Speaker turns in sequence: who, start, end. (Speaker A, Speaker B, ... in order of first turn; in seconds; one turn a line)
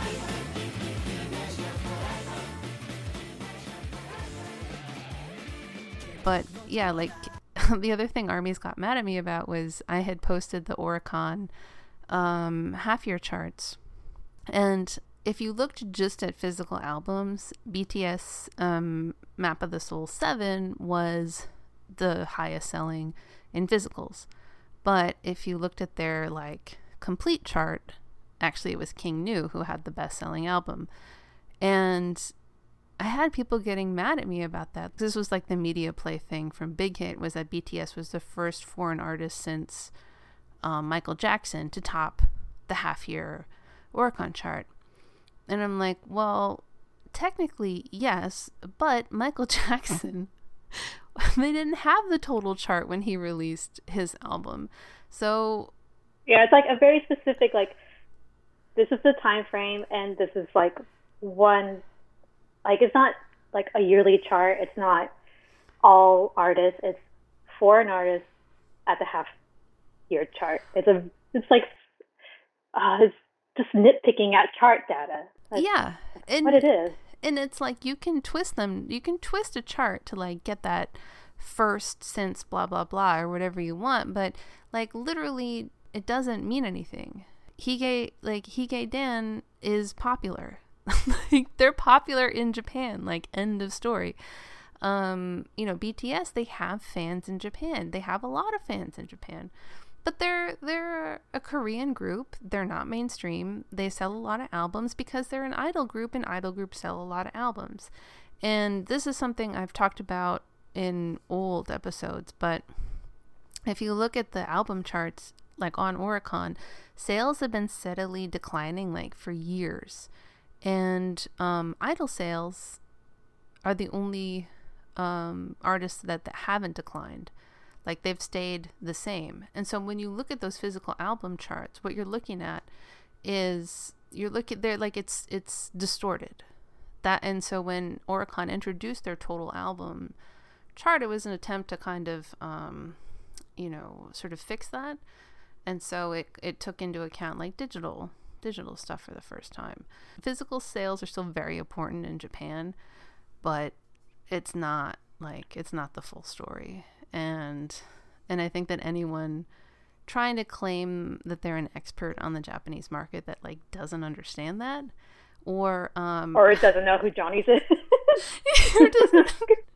Speaker A: 6.2-11.5
Speaker A: 12.1-13.8
Speaker A: 14.5-24.3
Speaker A: 24.8-30.9
Speaker A: 31.6-32.3
Speaker A: 33.0-39.9
Speaker A: 40.6-44.7
Speaker A: 45.5-55.7
Speaker B: 56.3-57.8
Speaker B: 58.8-61.8
Speaker B: 62.6-65.1
Speaker B: 65.8-68.3
Speaker B: 68.9-69.3
Speaker B: 70.1-71.7
Speaker B: 72.7-75.7
Speaker A: 75.5-94.2
Speaker B: 76.4-77.0
Speaker A: 94.8-99.5
Speaker A: 100.0-107.9
Speaker A: 108.4-112.9
Speaker A: 113.7-120.1
Speaker A: 120.6-122.8
Speaker A: 123.6-127.3
Speaker A: 127.8-132.7
Speaker A: 133.2-136.5
Speaker A: 137.0-140.1
Speaker A: 140.7-143.0
Speaker A: 143.6-145.0
Speaker A: 145.7-152.8
Speaker A: 153.4-153.7
Speaker A: 154.3-159.5
Speaker A: 160.1-164.9
Speaker A: 165.4-166.6
Speaker B: 166.3-168.2
Speaker A: 168.5-169.5
Speaker B: 168.8-169.3